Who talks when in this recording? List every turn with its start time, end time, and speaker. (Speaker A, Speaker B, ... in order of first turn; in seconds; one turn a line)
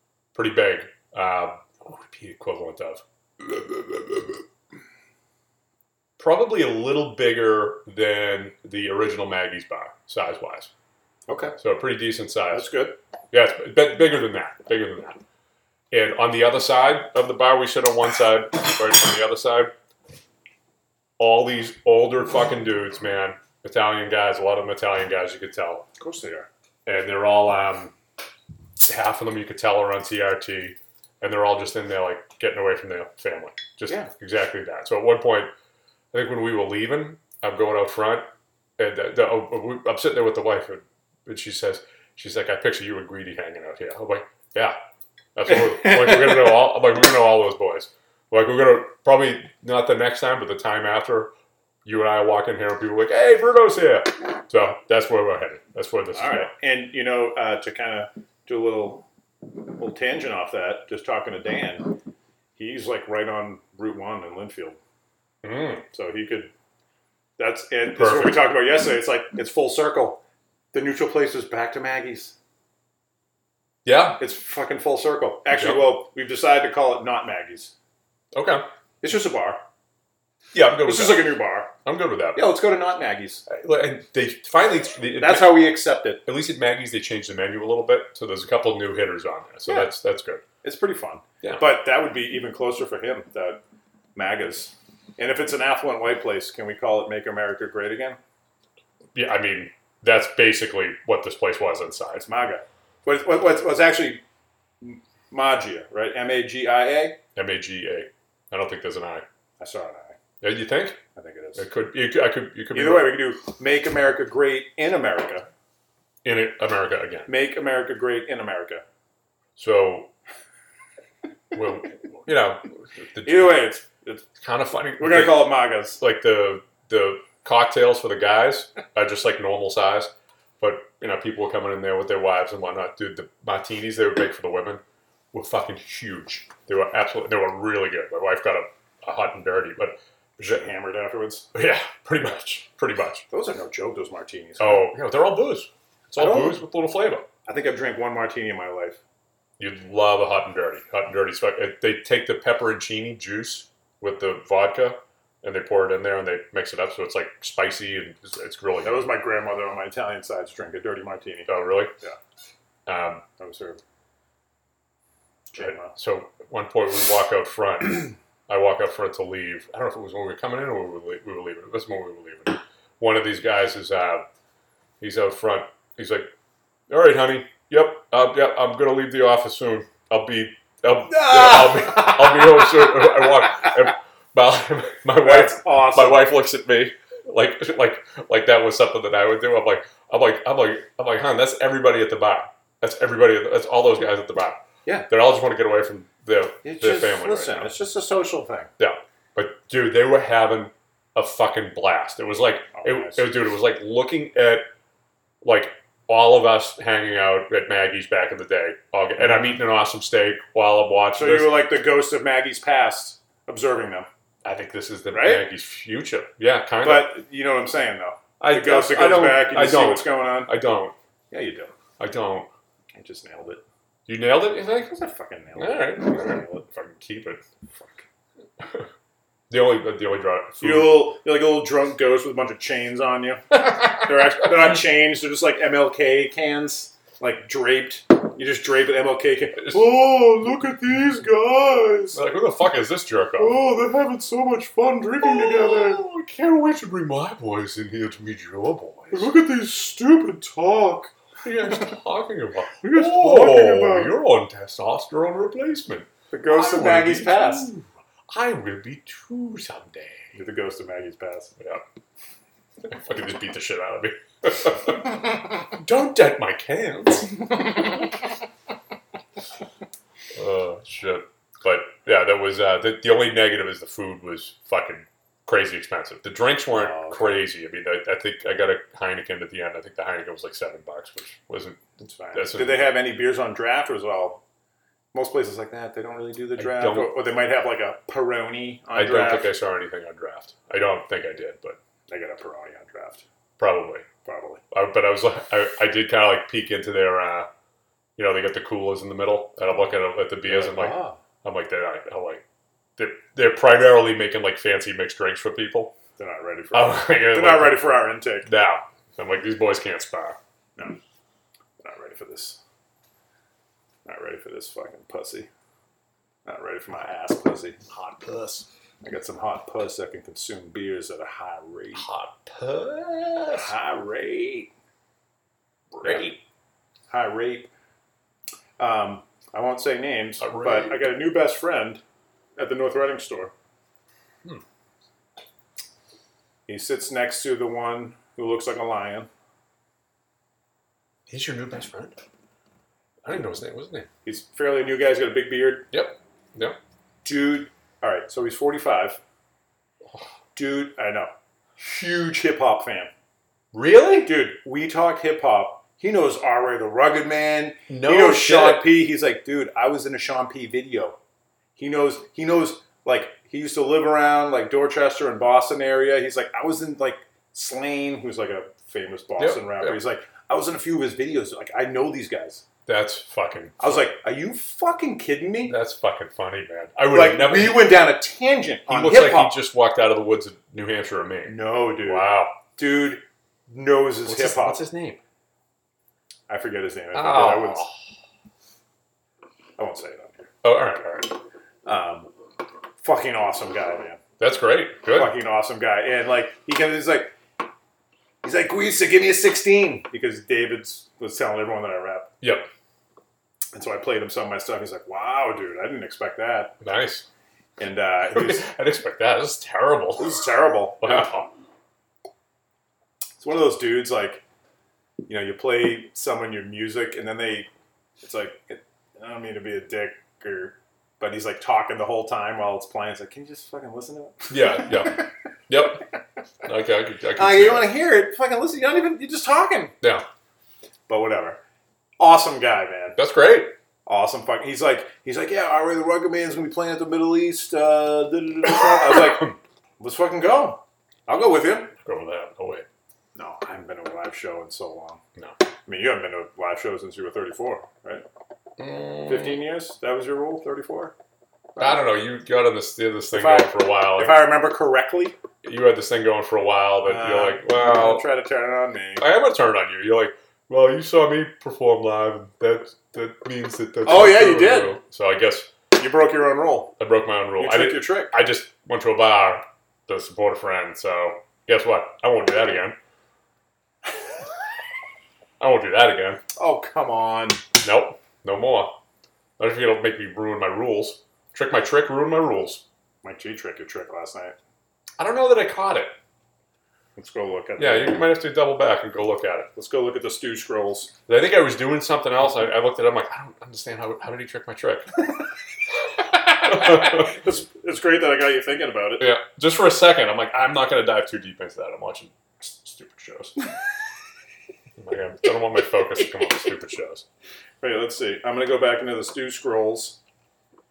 Speaker A: 0.3-3.0
Speaker A: 6.2-10.7
Speaker B: 11.3-11.6
Speaker A: 11.6-12.8
Speaker B: 12.5-12.9
Speaker A: 13.3-15.2
Speaker A: 15.9-19.7
Speaker A: 21.2-25.9
Speaker B: 26.0-26.5
Speaker A: 26.9-27.9
Speaker A: 28.8-35.5
Speaker A: 36.1-38.2
Speaker A: 38.8-44.8
Speaker A: 45.3-51.3
Speaker A: 51.8-56.5
Speaker B: 56.1-59.0
Speaker B: 59.8-61.9
Speaker B: 62.5-64.8
Speaker A: 65.4-65.8
Speaker B: 65.9-66.5
Speaker B: 67.4-70.2
Speaker A: 68.0-68.5
Speaker B: 70.7-72.3
Speaker A: 73.8-74.2
Speaker B: 74.2-77.7
Speaker A: 75.6-76.0
Speaker A: 78.3-78.6
Speaker B: 79.0-79.6
Speaker A: 80.5-82.5
Speaker B: 80.8-81.7
Speaker B: 82.3-83.5
Speaker A: 83.5-90.4
Speaker B: 85.2-86.2
Speaker B: 90.6-93.6
Speaker A: 91.4-91.7
Speaker B: 94.1-98.2
Speaker A: 99.1-102.3
Speaker B: 102.1-104.2
Speaker B: 104.8-107.2
Speaker A: 107.3-109.2
Speaker B: 109.6-110.2
Speaker A: 110.4-111.0
Speaker B: 111.1-111.6
Speaker A: 111.6-113.2
Speaker B: 112.7-115.5
Speaker A: 116.2-117.3
Speaker B: 117.3-118.8
Speaker A: 119.6-120.1
Speaker A: 121.5-123.7
Speaker B: 123.2-124.3
Speaker A: 124.4-134.8
Speaker B: 125.0-126.0
Speaker A: 135.3-140.6
Speaker B: 140.4-141.5
Speaker A: 141.5-143.2
Speaker B: 143.3-144.9
Speaker A: 144.6-147.2
Speaker B: 146.2-146.6
Speaker B: 147.5-149.0
Speaker A: 149.6-159.1
Speaker B: 158.8-161.5
Speaker A: 161.5-161.9
Speaker A: 162.8-163.2
Speaker B: 163.4-163.8
Speaker B: 165.5-165.9
Speaker A: 165.6-174.2
Speaker A: 175.0-176.3
Speaker A: 176.9-197.7
Speaker B: 181.1-182.8
Speaker B: 185.2-186.3
Speaker B: 196.6-198.7
Speaker A: 198.8-204.7
Speaker B: 202.7-203.3
Speaker A: 205.4-211.7
Speaker B: 211.1-214.1
Speaker A: 214.4-217.2
Speaker B: 215.1-215.4
Speaker B: 216.8-220.5
Speaker A: 218.4-220.9
Speaker B: 221.3-221.7
Speaker A: 222.0-222.5
Speaker B: 222.9-223.6
Speaker A: 224.1-225.0
Speaker B: 224.9-226.6
Speaker A: 225.6-227.4
Speaker B: 227.7-228.0
Speaker A: 228.6-228.9
Speaker A: 229.5-231.1
Speaker B: 230.6-242.2
Speaker A: 242.1-243.6
Speaker B: 243.4-246.0
Speaker A: 245.2-249.3
Speaker B: 249.1-251.1
Speaker A: 251.4-260.3
Speaker B: 252.8-254.2
Speaker B: 256.3-257.7
Speaker B: 260.3-261.5
Speaker A: 262.8-267.4
Speaker A: 270.4-281.8
Speaker B: 276.7-277.4
Speaker B: 282.0-284.4
Speaker A: 282.3-282.9
Speaker B: 285.1-289.5
Speaker A: 286.6-287.2
Speaker A: 288.9-291.8
Speaker B: 292.1-293.2
Speaker A: 293.6-294.1
Speaker B: 294.2-294.6
Speaker A: 294.7-297.5
Speaker A: 298.1-302.4
Speaker B: 300.4-301.2
Speaker A: 303.0-305.9
Speaker B: 306.2-308.5
Speaker A: 306.7-310.4
Speaker B: 311.8-312.6
Speaker B: 314.1-315.5
Speaker B: 316.4-317.8
Speaker A: 317.9-318.6
Speaker B: 319.0-322.0
Speaker A: 321.9-323.7
Speaker B: 323.5-324.7
Speaker A: 325.9-326.4
Speaker B: 326.0-326.3
Speaker B: 327.1-327.7
Speaker B: 328.8-332.0
Speaker A: 330.4-331.1
Speaker B: 332.6-333.5
Speaker B: 336.7-339.3
Speaker A: 341.3-342.2
Speaker A: 343.2-344.1
Speaker B: 344.2-345.9
Speaker A: 345.9-346.8
Speaker B: 347.2-349.2
Speaker B: 350.5-353.1
Speaker A: 353.7-354.3
Speaker B: 354.2-361.1
Speaker A: 357.9-358.9
Speaker B: 361.8-372.6
Speaker A: 369.4-370.0
Speaker A: 372.9-374.1
Speaker B: 373.8-375.8
Speaker A: 375.6-378.0
Speaker B: 377.1-379.6
Speaker A: 378.9-382.6
Speaker B: 381.4-384.8
Speaker A: 384.2-385.2
Speaker B: 386.5-387.9
Speaker A: 387.1-387.9
Speaker B: 389.8-390.5
Speaker A: 390.6-391.4
Speaker B: 391.8-392.3
Speaker B: 393.0-394.2
Speaker A: 394.4-395.4
Speaker B: 395.1-397.3
Speaker B: 398.4-402.3
Speaker A: 402.4-402.7
Speaker B: 403.7-406.7
Speaker A: 406.8-407.2
Speaker B: 407.8-408.6
Speaker A: 408.3-410.5
Speaker B: 410.2-411.3
Speaker A: 411.0-411.5
Speaker B: 413.4-414.4
Speaker B: 415.3-417.7
Speaker B: 418.2-425.2
Speaker A: 424.5-426.0
Speaker A: 426.6-427.9
Speaker B: 427.4-429.9
Speaker B: 431.1-431.6
Speaker B: 432.2-433.2
Speaker A: 433.2-433.7
Speaker B: 434.1-441.9
Speaker A: 442.0-442.9
Speaker B: 443.4-445.2
Speaker B: 445.9-448.2
Speaker A: 448.8-449.6
Speaker B: 449.3-451.1
Speaker B: 451.8-452.0
Speaker A: 451.8-454.5
Speaker B: 453.3-455.4
Speaker A: 455.6-458.2
Speaker B: 457.0-459.3
Speaker A: 459.2-465.7
Speaker B: 464.1-465.0
Speaker B: 466.0-466.9
Speaker A: 467.0-473.0
Speaker B: 467.6-468.3
Speaker A: 475.6-476.4
Speaker B: 476.6-477.6
Speaker A: 477.8-478.9
Speaker A: 479.6-482.8
Speaker B: 483.2-484.6
Speaker A: 485.2-486.1
Speaker B: 487.2-488.2
Speaker A: 487.8-489.7
Speaker B: 489.8-491.1
Speaker A: 491.3-495.2
Speaker A: 496.6-497.4
Speaker B: 496.6-499.2
Speaker A: 499.2-503.6
Speaker A: 505.0-507.2
Speaker B: 507.8-510.2